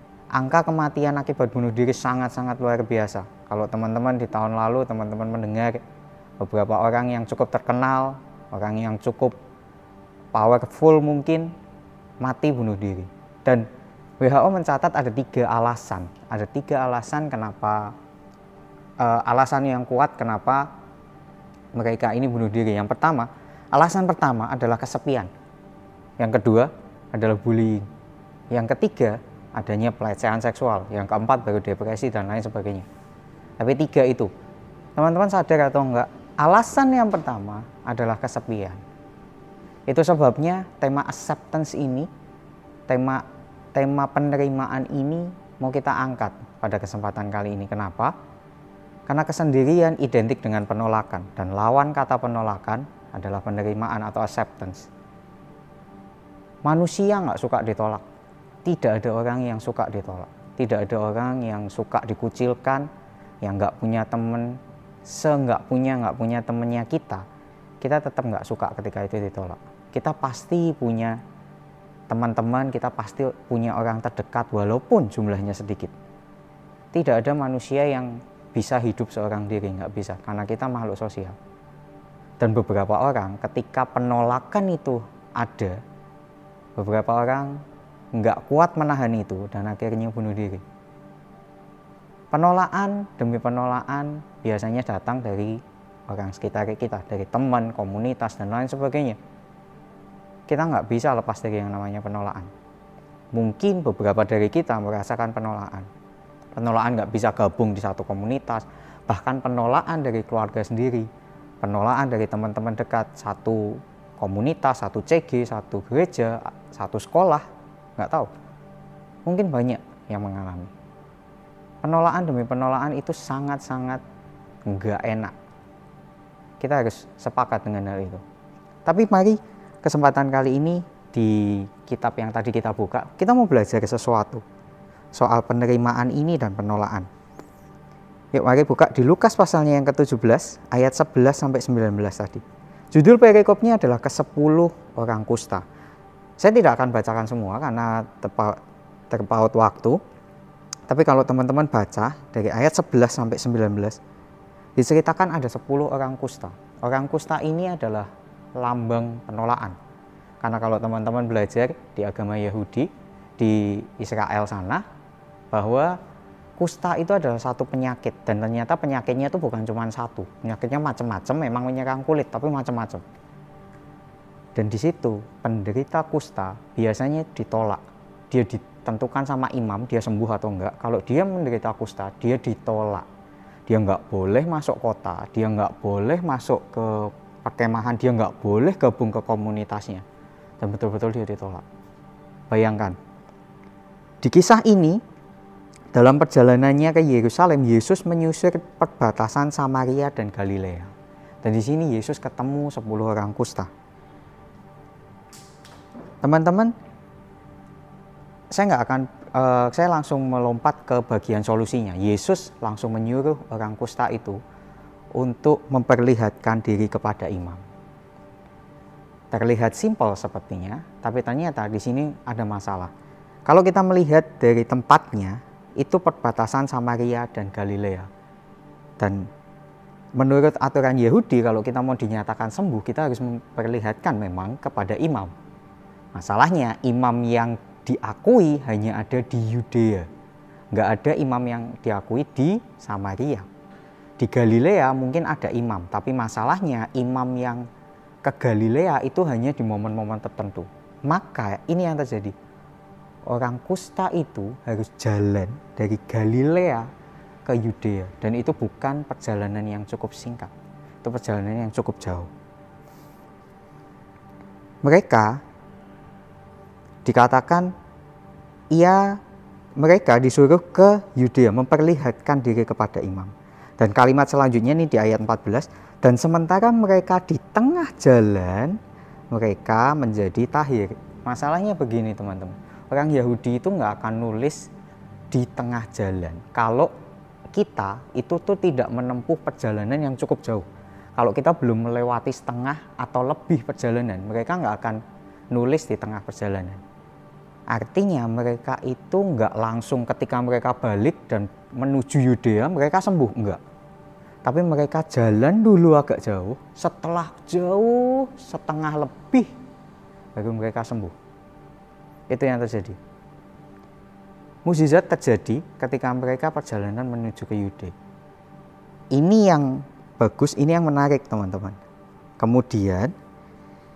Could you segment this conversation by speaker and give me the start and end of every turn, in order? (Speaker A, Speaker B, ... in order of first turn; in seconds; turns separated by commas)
Speaker A: 0.3-5.8, Speaker A: 6.4-9.3, Speaker A: 10.3-11.5, Speaker A: 12.2-13.7, Speaker A: 14.2-17.9, Speaker A: 19.0-20.7, Speaker A: 21.7-25.3, Speaker A: 26.2-27.9, Speaker A: 28.5-32.9, Speaker A: 33.6-34.3, Speaker A: 35.0-38.8, Speaker A: 39.9-42.1, Speaker A: 42.9-48.1, Speaker A: 49.1-54.9, Speaker A: 56.6-58.0, Speaker A: 58.6-62.9, Speaker A: 63.4-67.2, Speaker A: 67.8-71.2, Speaker A: 72.1-75.9, Speaker A: 76.9-81.3, Speaker A: 82.4-85.8, Speaker A: 86.8-87.6, Speaker A: 88.1-90.6, Speaker A: 92.3-99.2, Speaker A: 100.5-102.5, Speaker A: 103.3-105.9, Speaker A: 106.5-111.1, Speaker A: 111.6-117.4, Speaker A: 118.0-118.3, Speaker A: 119.2-120.7, Speaker A: 121.8-124.0, Speaker A: 124.7-125.3, Speaker A: 126.6-128.2, Speaker A: 128.8-134.4, Speaker A: 135.1-137.1, Speaker A: 138.3-145.6, Speaker A: 146.4-148.6, Speaker A: 149.1-150.0, Speaker A: 150.9-154.0, Speaker A: 154.8-159.8, Speaker A: 160.4-164.8, Speaker A: 165.5-166.0, Speaker A: 166.6-173.0, Speaker A: 174.5-183.1, Speaker A: 183.7-190.0, Speaker A: 190.6-191.6, Speaker A: 192.5-193.0, Speaker A: 194.2-195.0, Speaker A: 195.9-203.7, Speaker A: 206.2-206.7, Speaker A: 208.5-214.4, Speaker A: 215.1-217.6, Speaker A: 219.3-222.9, Speaker A: 223.4-228.1, Speaker A: 229.0-229.3, Speaker A: 230.2-235.3, Speaker A: 236.1-240.1, Speaker A: 240.7-243.5, Speaker A: 244.2-247.7, Speaker A: 248.2-252.3, Speaker A: 253.3-256.9, Speaker A: 257.4-260.5, Speaker A: 261.0-262.3, Speaker A: 264.8-265.4, Speaker A: 267.0-267.7, Speaker A: 268.7-269.2, Speaker A: 269.8-278.8, Speaker A: 279.3-284.7, Speaker A: 285.3-286.9, Speaker A: 287.5-290.6, Speaker A: 291.1-296.8, Speaker A: 297.7-303.6, Speaker A: 304.4-309.5, Speaker A: 310.3-311.1, Speaker A: 312.3-313.0, Speaker A: 314.6-317.9, Speaker A: 319.1-321.8, Speaker A: 322.4-323.1